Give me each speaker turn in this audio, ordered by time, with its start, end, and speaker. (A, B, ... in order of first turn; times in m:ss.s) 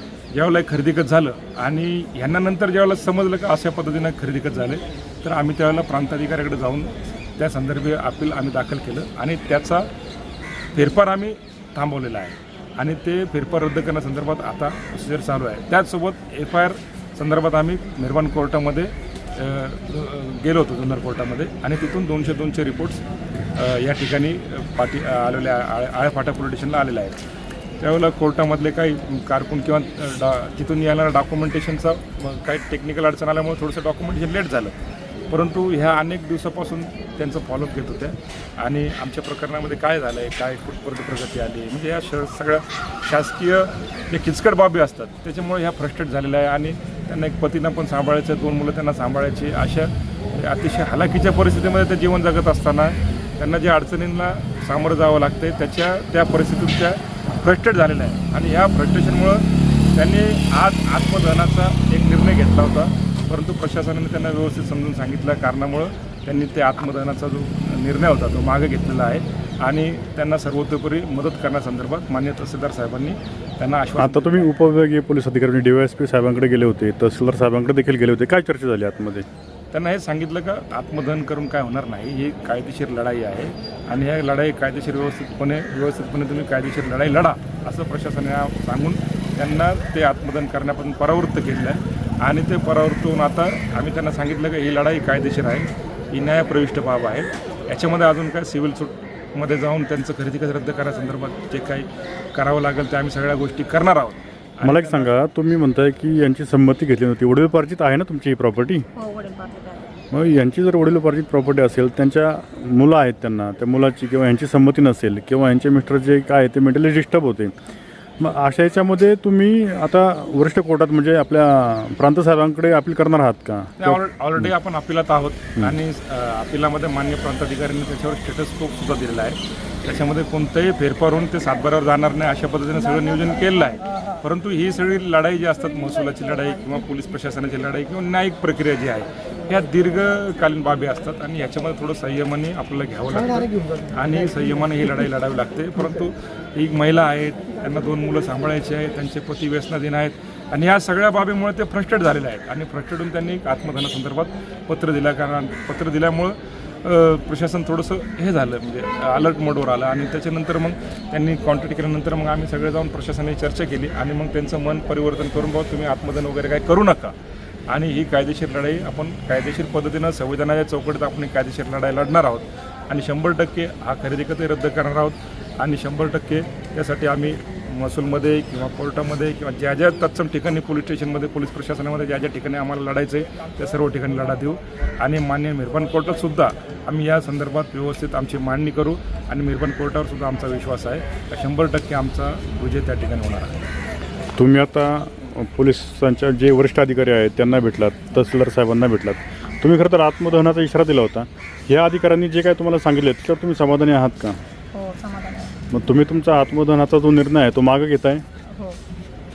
0:00.3-0:09.9 A
0:10.7-0:23.0 A
0:23.5-0:27.2 A
0:27.8-0:34.8 A
0:35.3-1:14.5 A
1:14.0-1:19.2 B
1:19.7-1:45.1 A
1:44.6-1:48.9 B
1:48.9-1:49.9 C
1:50.1-1:57.5 B
1:58.2-2:04.5 B
2:03.8-2:47.1 A
2:47.7-3:13.6 A
3:14.4-3:24.4 B
3:24.7-3:25.6 C
3:25.7-3:28.2 B
3:28.5-3:28.8 C